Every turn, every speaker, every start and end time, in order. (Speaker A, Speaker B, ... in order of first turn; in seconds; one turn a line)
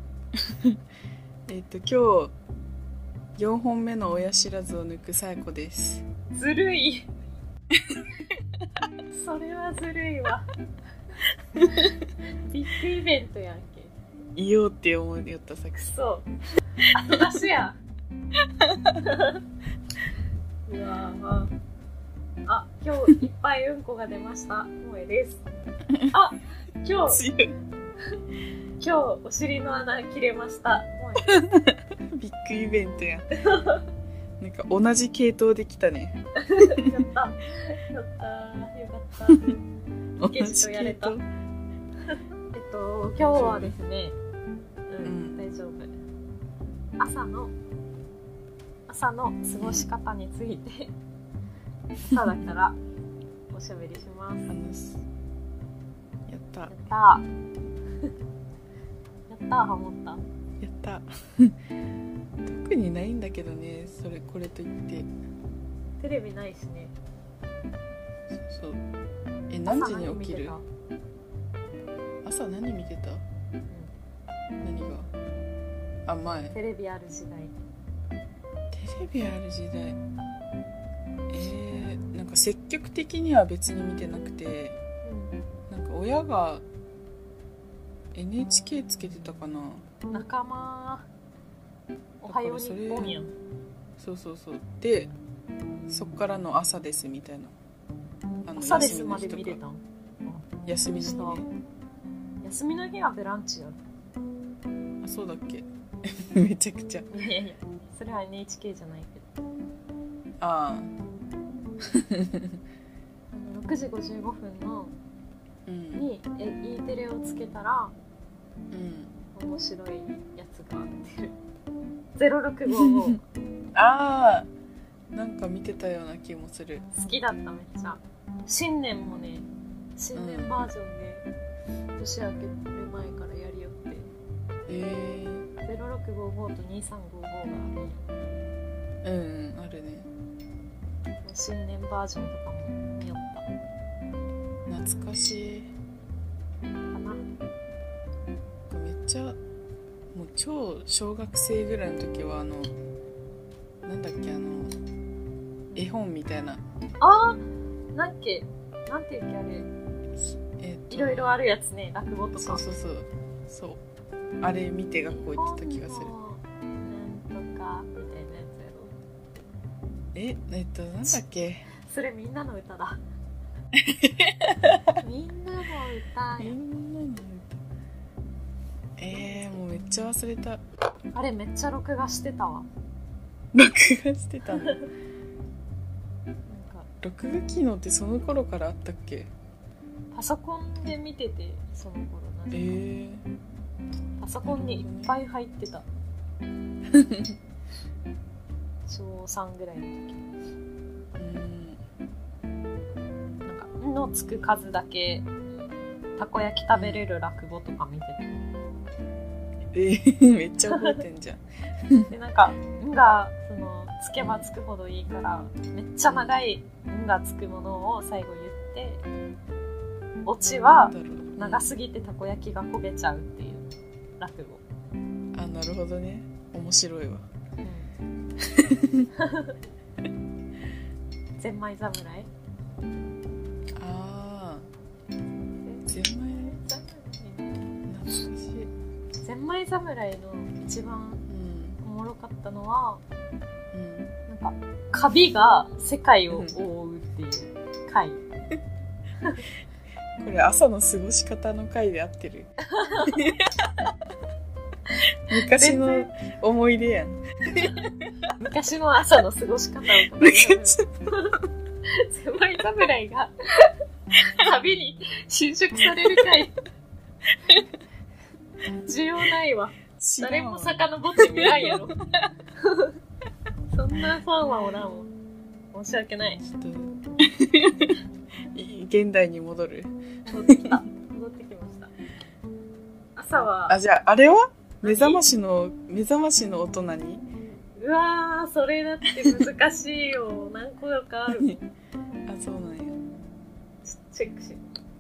Speaker A: 1.5-2.3
Speaker A: 3.4-6.0
Speaker B: 6.3-7.1
Speaker A: 7.9-8.3
Speaker B: 9.1-10.4
Speaker B: 11.6-13.9
Speaker A: 14.4-15.9
Speaker B: 15.8-16.3
Speaker B: 16.9-17.8
Speaker A: 18.6-19.0
Speaker B: 19.0-19.4
Speaker B: 20.7-21.5
Speaker B: 22.5-25.4
Speaker B: 26.1-27.2
Speaker A: 27.1-27.5
Speaker B: 28.8-31.4
Speaker A: 31.3-33.4
Speaker B: 33.5-33.9
Speaker A: 34.4-36.2
Speaker B: 36.5-39.5
Speaker A: 36.7-36.9
Speaker A: 40.2-41.2
Speaker B: 40.2-41.2
Speaker B: 42.1-44.2
Speaker A: 43.2-43.8
Speaker B: 44.9-45.9
Speaker A: 45.0-45.4
Speaker B: 47.0-47.5
Speaker B: 48.9-50.9
Speaker A: 49.6-49.9
Speaker B: 52.0-52.8
Speaker A: 52.1-52.5
Speaker B: 53.5-54.5
Speaker A: 54.5-55.0
Speaker A: 56.3-56.7
Speaker B: 56.7-57.2
Speaker B: 59.3-60.2
Speaker A: 60.6-61.6
Speaker A: 62.5-65.1
Speaker B: 66.0-66.9
Speaker A: 68.3-68.8
Speaker A: 69.5-70.6
Speaker B: 69.7-70.7
Speaker A: 72.2-73.2
Speaker A: 74.6-75.1
Speaker A: 76.1-76.6
Speaker B: 76.4-77.5
Speaker A: 78.7-80.0
Speaker A: 81.3-84.8
Speaker B: 85.0-85.4
Speaker A: 85.7-86.6
Speaker A: 88.1-89.8
Speaker B: 90.1-91.1
Speaker B: 92.2-93.3
Speaker A: 92.2-93.2
Speaker A: 94.0-95.1
Speaker A: 95.9-97.5
Speaker A: 98.5-99.6
Speaker B: 98.5-101.4
Speaker A: 100.7-101.5
Speaker B: 102.4-103.8
Speaker A: 105.0-107.1
Speaker B: 107.1-109.3
Speaker A: 110.4-110.9
Speaker A: 111.9-112.5
Speaker B: 113.3-114.9
Speaker A: 115.7-116.1
Speaker B: 115.9-117.9
Speaker A: 118.7-119.1
Speaker B: 119.3-121.3
Speaker B: 122.2-123.2
Speaker A: 122.8-123.2
Speaker A: 123.8-124.5
Speaker A: 125.1-126.9
Speaker B: 126.9-131.3
Speaker A: 130.2-130.7
Speaker B: 132.0-134.1
Speaker A: 134.7-135.5
Speaker B: 135.7-138.1
Speaker A: 139.0-140.1
Speaker B: 141.2-143.5
Speaker A: 144.7-145.7
Speaker B: 146.9-147.2
Speaker A: 148.7-149.4
Speaker A: 150.1-152.7
Speaker A: 153.8-154.7
Speaker A: 155.8-156.6
Speaker B: 157.0-157.4
Speaker B: 157.9-159.7
Speaker A: 160.2-161.4
Speaker B: 160.9-162.6
Speaker A: 162.4-163.8
Speaker A: 164.4-166.1
Speaker B: 165.1-168.9
Speaker A: 170.2-171.7
Speaker B: 171.8-173.0
Speaker A: 173.8-174.8
Speaker B: 174.9-176.6
Speaker A: 176.4-177.6
Speaker A: 179.0-180.6
Speaker B: 179.1-179.6
Speaker B: 181.1-182.7
Speaker A: 183.5-184.8
Speaker B: 186.5-186.9
Speaker A: 187.0-189.3
Speaker B: 190.1-192.8
Speaker A: 192.5-193.2
Speaker B: 194.2-195.9
Speaker A: 194.4-195.1
Speaker A: 196.9-197.3
Speaker B: 198.9-200.2
Speaker A: 201.2-201.8
Speaker B: 203.5-205.3
Speaker B: 206.2-208.3
Speaker A: 206.7-207.0
Speaker A: 209.7-212.1
Speaker B: 210.7-211.0
Speaker B: 212.1-219.0
Speaker A: 214.2-214.5
Speaker A: 216.1-216.4
Speaker B: 220.3-223.7
Speaker A: 220.4-221.7
Speaker B: 224.2-224.6
Speaker A: 225.3-227.2
Speaker B: 227.6-227.9
Speaker A: 228.5-229.1
Speaker B: 229.2-229.6
Speaker B: 231.4-232.3
Speaker A: 233.8-234.7
Speaker B: 235.5-237.7
Speaker A: 235.9-236.6
Speaker A: 237.9-238.7
Speaker B: 239.2-241.2
Speaker A: 241.3-241.8
Speaker B: 241.8-243.0
Speaker A: 243.7-244.1
Speaker B: 244.3-248.2
Speaker A: 250.2-252.5
Speaker B: 252.7-253.3
Speaker A: 253.1-253.9
Speaker A: 255.3-257.9
Speaker B: 255.3-256.1
Speaker B: 258.4-261.4
Speaker A: 260.0-260.9
Speaker B: 262.0-263.7
Speaker B: 264.3-266.5
Speaker B: 268.8-272.0
Speaker A: 270.0-271.8
Speaker B: 272.6-272.9
Speaker B: 273.7-275.1
Speaker B: 275.7-276.4
Speaker A: 276.4-278.0
Speaker A: 278.5-279.9
Speaker B: 280.3-281.9
Speaker A: 280.4-280.7
Speaker B: 283.2-283.8
Speaker A: 283.7-287.2
Speaker B: 284.8-285.2
Speaker B: 287.8-291.6
Speaker A: 289.2-289.5
Speaker A: 292.3-293.0
Speaker B: 293.9-294.6